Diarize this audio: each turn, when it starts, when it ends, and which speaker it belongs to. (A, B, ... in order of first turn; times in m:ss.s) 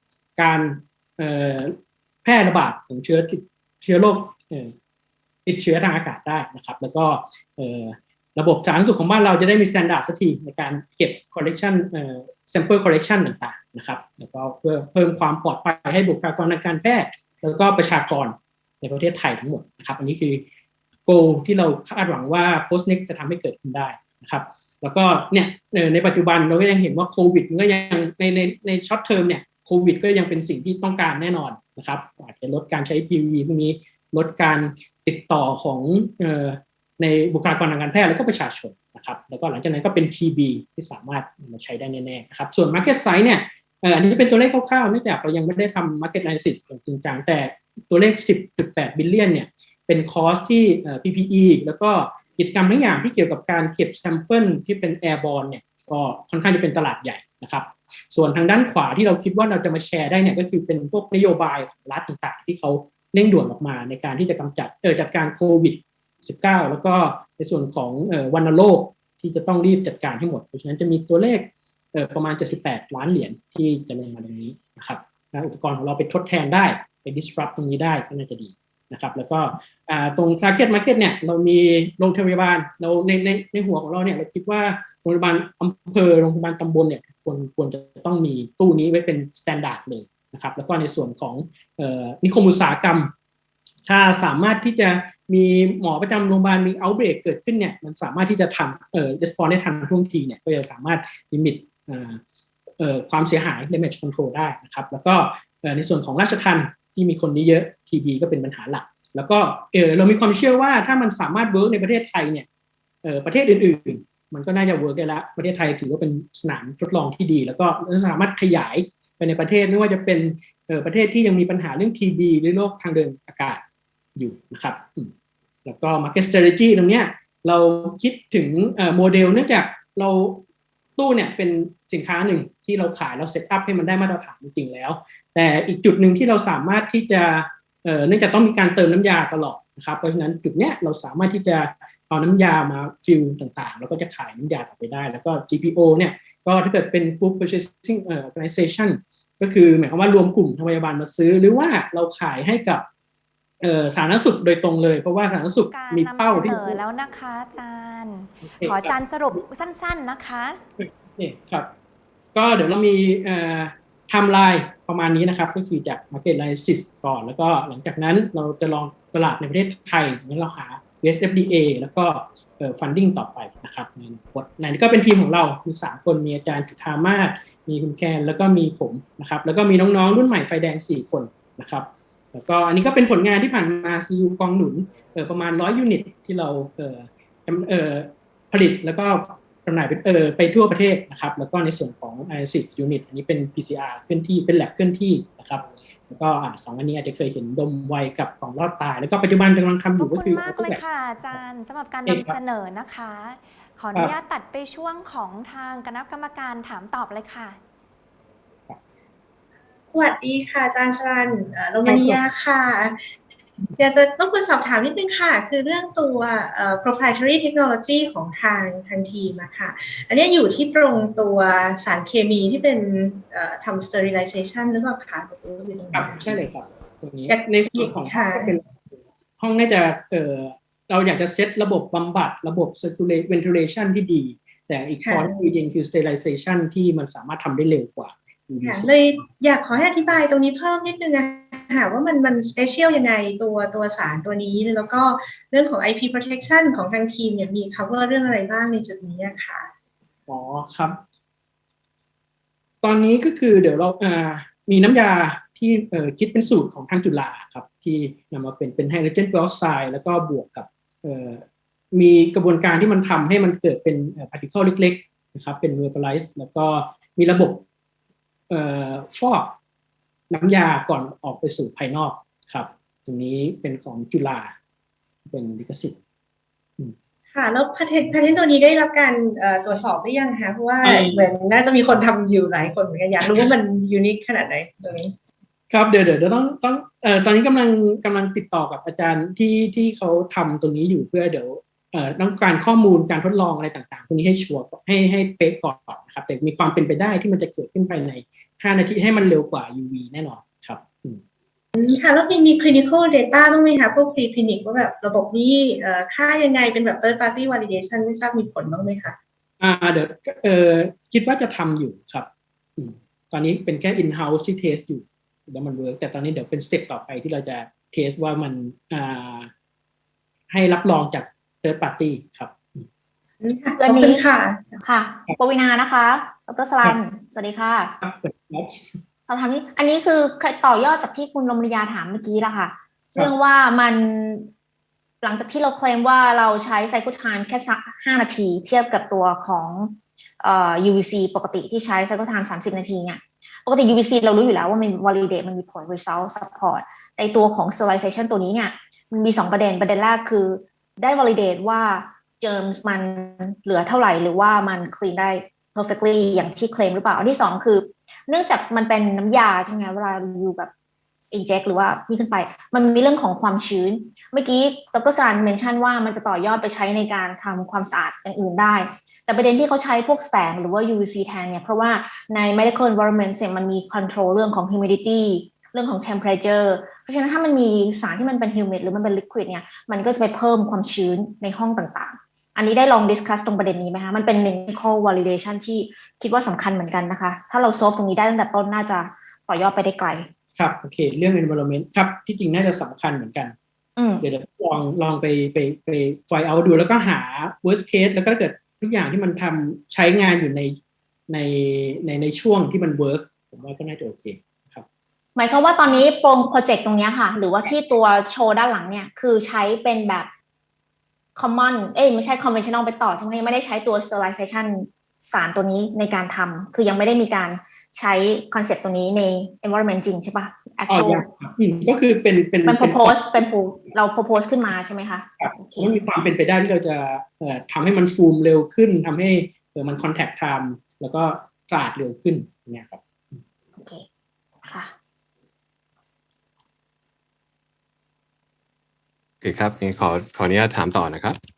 0:00.4-0:04.7 A
0:05.4-0:20.4 A
0:21.0-1:33.1 A
1:33.9-1:42.2 A
1:42.8-1:52.5 A
1:53.0-2:03.6 A
2:04.2-2:05.1 A
2:05.6-2:10.4 A
2:11.0-2:32.8 A
2:33.6-2:36.8 A
2:35.7-2:40.6 B
2:38.4-2:39.4 A
2:40.8-2:41.7 A
2:42.3-3:21.4 A
3:20.0-3:27.6 B
3:22.0-3:22.4 A
3:29.9-3:33.0 C
3:31.8-3:32.2 A
3:33.8-3:46.5 C
3:45.9-3:48.7 A
3:47.3-3:48.6 C
3:49.4-3:58.9 A
3:55.0-3:55.4 C
3:58.6-4:09.7 C
4:10.3-4:11.0 A
4:12.8-4:27.6 A
4:28.5-4:29.6 A
4:30.3-4:34.6 A
4:35.2-4:36.0 A
4:37.3-4:45.2 C
4:40.8-4:41.3 A
4:43.2-4:43.5 A
4:45.7-5:01.2 A
5:01.7-5:09.2 C
5:09.6-5:19.5 A
5:20.5-5:22.9 A
5:23.4-5:24.8 C
5:23.8-5:24.2 D
5:24.8-5:28.0 D
5:28.0-5:28.9 A
5:29.3-5:34.5 D
5:35.2-6:00.7 D
6:01.3-6:30.3 D
6:30.6-6:33.5 A
6:34.0-6:34.2 D
6:34.2-6:40.8 A
6:41.3-6:44.8 A
6:45.4-6:50.3 D
6:51.4-7:01.3 D
7:00.9-7:03.4 A
7:02.6-7:05.9 D
7:05.4-7:13.4 A
7:13.8-7:14.0 D
7:14.6-7:14.9 D
7:19.4-7:21.4 E